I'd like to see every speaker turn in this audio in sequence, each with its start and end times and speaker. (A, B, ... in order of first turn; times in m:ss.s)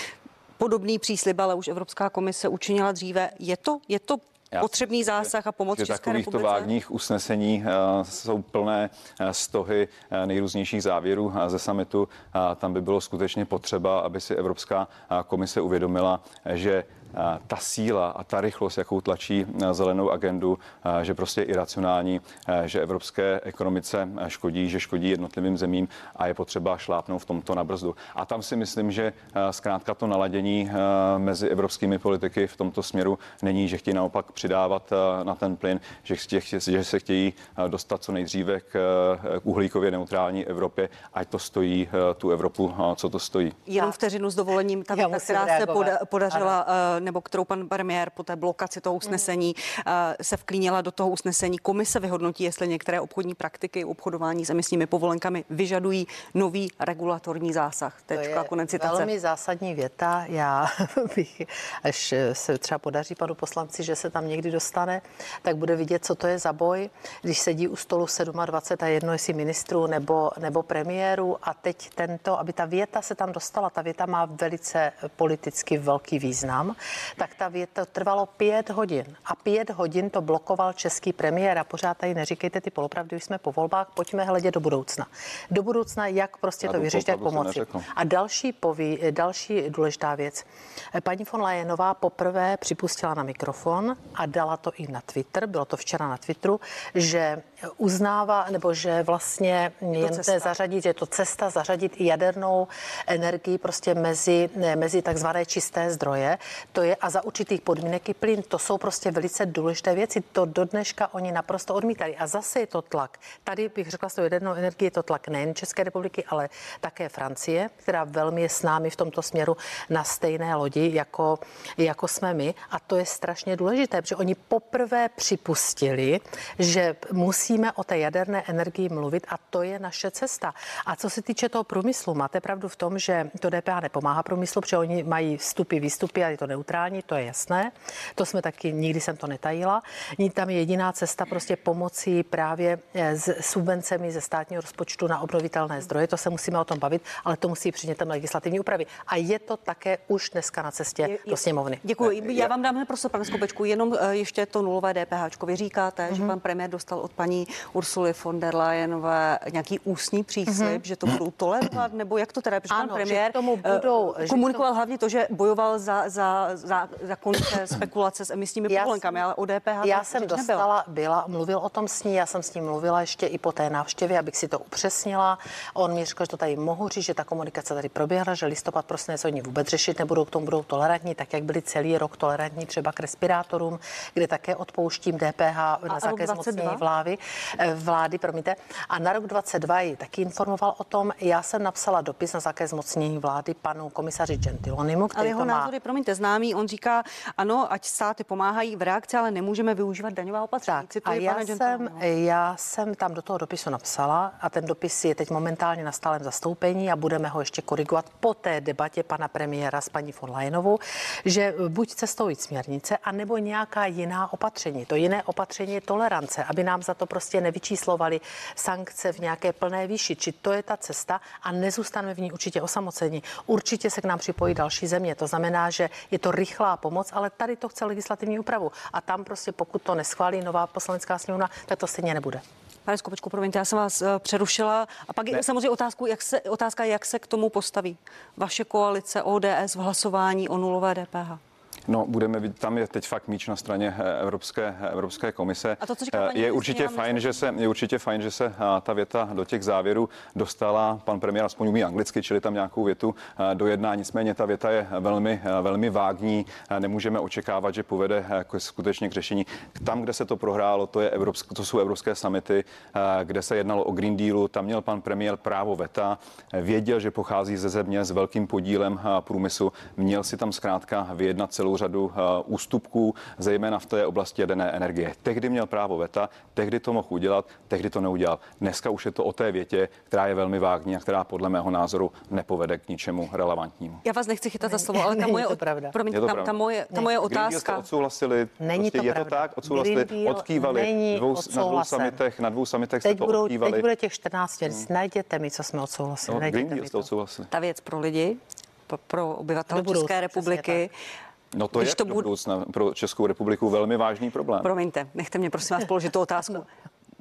0:00.6-0:06.7 A
0:04.5-0:43.6 B
0:43.7-0:59.1 A
0:44.9-0:46.5 C
0:58.1-2:31.8 C
1:26.6-1:27.9 B
1:40.0-1:40.5 A
2:31.0-2:50.7 A
2:32.0-2:32.5 B
2:40.5-2:40.8 C
2:42.7-2:44.6 C
2:48.7-2:49.2 C
2:49.8-3:15.7 C
3:05.9-3:06.8 A
3:15.1-3:22.0 A
3:20.7-3:52.4 C
3:52.8-4:01.4 A
4:01.9-4:44.0 B
4:05.8-4:07.4 A
4:44.0-4:47.9 A
4:44.6-4:45.9 C
4:46.1-4:46.5 B
4:47.2-4:53.8 B
4:48.6-4:52.2 C
4:53.0-4:57.1 C
4:56.3-4:57.5 B
4:57.5-5:00.9 A
4:59.7-5:00.8 C
5:01.5-5:04.7 B
5:01.8-5:02.3 A
5:04.6-5:06.7 A